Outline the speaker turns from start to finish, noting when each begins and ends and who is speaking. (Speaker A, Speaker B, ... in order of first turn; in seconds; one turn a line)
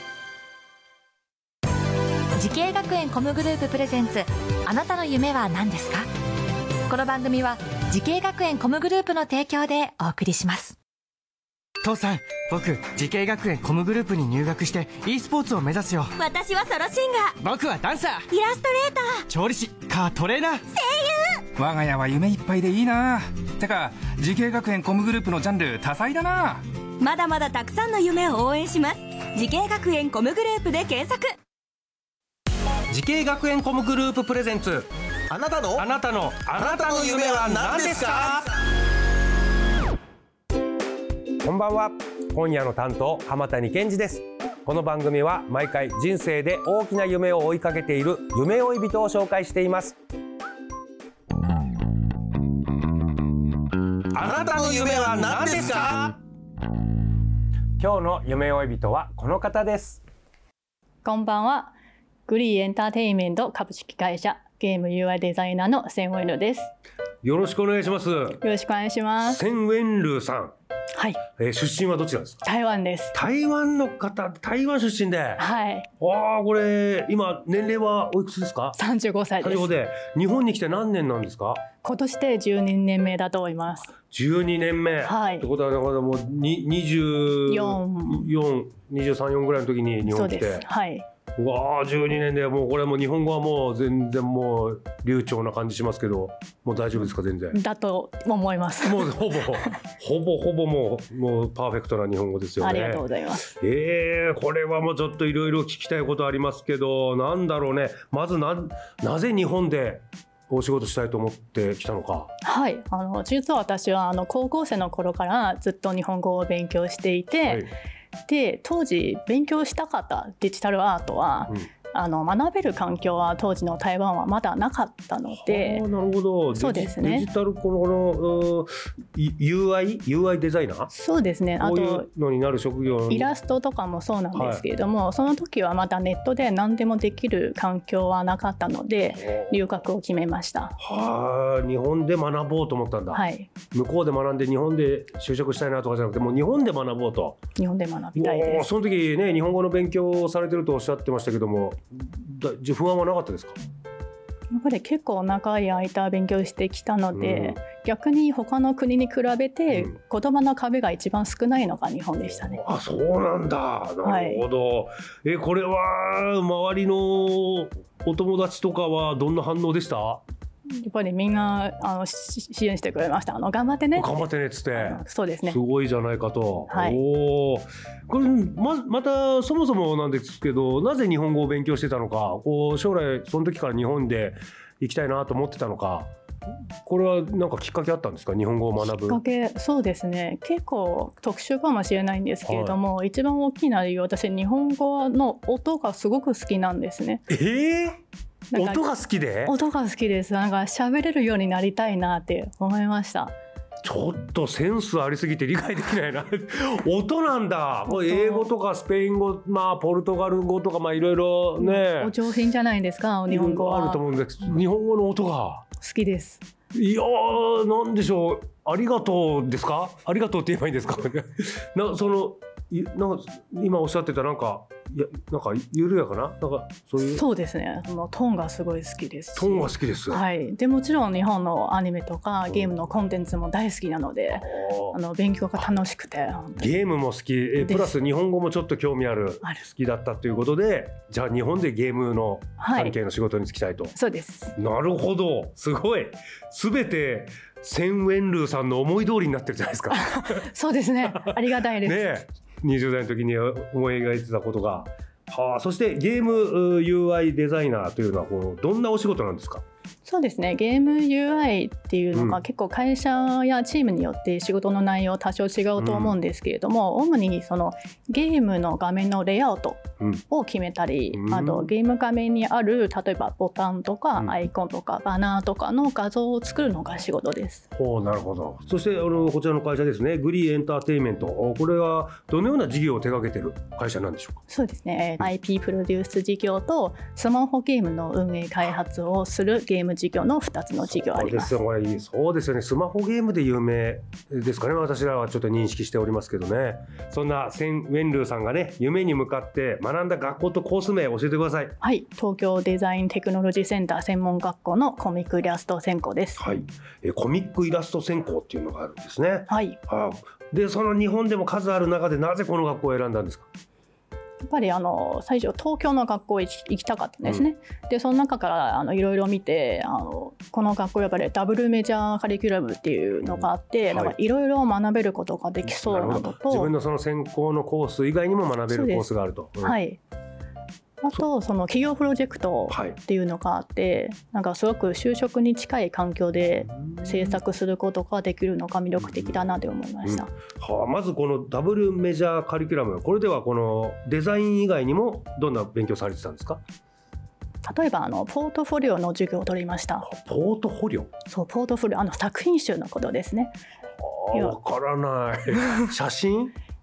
Speaker A: 2.4-6.1
Speaker A: 6.9-10.8
Speaker B: 11.8-16.1
Speaker C: 16.2-17.4
Speaker B: 17.4-18.3
Speaker C: 18.3-19.2
Speaker B: 19.3-20.6
Speaker C: 20.8-21.4
Speaker D: 21.6-26.6
Speaker C: 27.0-31.3
Speaker E: 32.9-34.9
Speaker F: 35.3-35.8
Speaker E: 35.7-38.4
Speaker F: 36.6-38.4
Speaker E: 41.4-50.0
Speaker E: 54.2-56.0
Speaker F: 54.2-56.1
Speaker E: 57.8-60.0
Speaker G: 61.0-66.7
Speaker E: 67.2-68.4
Speaker G: 68.4-69.4
Speaker E: 69.2-70.5
Speaker G: 70.9-71.2
Speaker E: 71.4-72.4
Speaker G: 72.4-73.1
Speaker E: 73.1-75.4
Speaker G: 75.4-75.9
Speaker E: 76.0-78.8
Speaker G: 78.8-79.7
Speaker E: 79.4-81.6
Speaker G: 81.8-83.9
Speaker E: 84.1-90.7
Speaker G: 85.0-85.5
Speaker G: 87.5-88.3
Speaker G: 90.1-91.1
Speaker E: 91.4-97.6
Speaker G: 97.5-99.7
Speaker E: 98.8-103.0
Speaker G: 102.6-103.5
Speaker E: 103.6-112.3
Speaker G: 112.4-117.7
Speaker E: 117.4-117.7
Speaker G: 118.3-125.8
Speaker E: 125.3-130.9
Speaker G: 126.5-127.3
Speaker G: 130.9-132.1
Speaker E: 131.6-133.3
Speaker G: 133.1-140.8
Speaker E: 134.3-134.6
Speaker E: 139.2-139.6
Speaker E: 140.8-147.4
Speaker G: 143.1-143.5
Speaker G: 147.6-148.7
Speaker E: 148.2-153.6
Speaker G: 154.5-162.6
Speaker E: 157.2-157.6
Speaker E: 162.2-170.2
Speaker G: 164.0-164.4
Speaker G: 170.8-175.6
Speaker E: 173.9-186.1
Speaker G: 176.7-177.0
Speaker E: 186.8-189.2
Speaker G: 188.8-197.2
Speaker E: 192.5-192.8
Speaker E: 197.3-198.0
Speaker G: 198.5-198.8
Speaker E: 198.5-199.5
Speaker G: 199.4-203.3
Speaker E: 203.8-212.1
Speaker G: 207.9-208.5
Speaker G: 211.6-214.0
Speaker E: 213.3-215.7
Speaker G: 215.8-216.4
Speaker E: 216.7-227.2
Speaker G: 227.0-236.8
Speaker E: 229.3-230.2
Speaker E: 234.4-235.0
Speaker E: 236.6-243.9
Speaker G: 237.6-238.0
Speaker G: 242.6-243.0
Speaker G: 243.9-244.5
Speaker E: 244.6-250.4
Speaker G: 249.9-252.1
Speaker E: 251.1-259.6
Speaker G: 260.0-277.6
Speaker E: 262.1-262.4
Speaker E: 265.8-266.2
Speaker E: 271.1-271.7
Speaker E: 277.7-284.4
Speaker G: 284.5-291.6
Speaker E: 290.8-301.8
Speaker G: 301.8-306.4
Speaker E: 306.4-313.5
Speaker G: 309.5-309.8
Speaker G: 314.4-326.7
Speaker E: 323.2-324.1
Speaker E: 325.6-329.8
Speaker G: 328.7-330.0
Speaker G: 331.0-340.3
Speaker E: 332.7-333.0
Speaker E: 337.0-337.4
Speaker E: 339.0-339.4
Speaker E: 340.0-346.6
Speaker G: 347.6-350.1
Speaker E: 350.0-351.1
Speaker G: 351.3-353.5
Speaker E: 354.0-356.5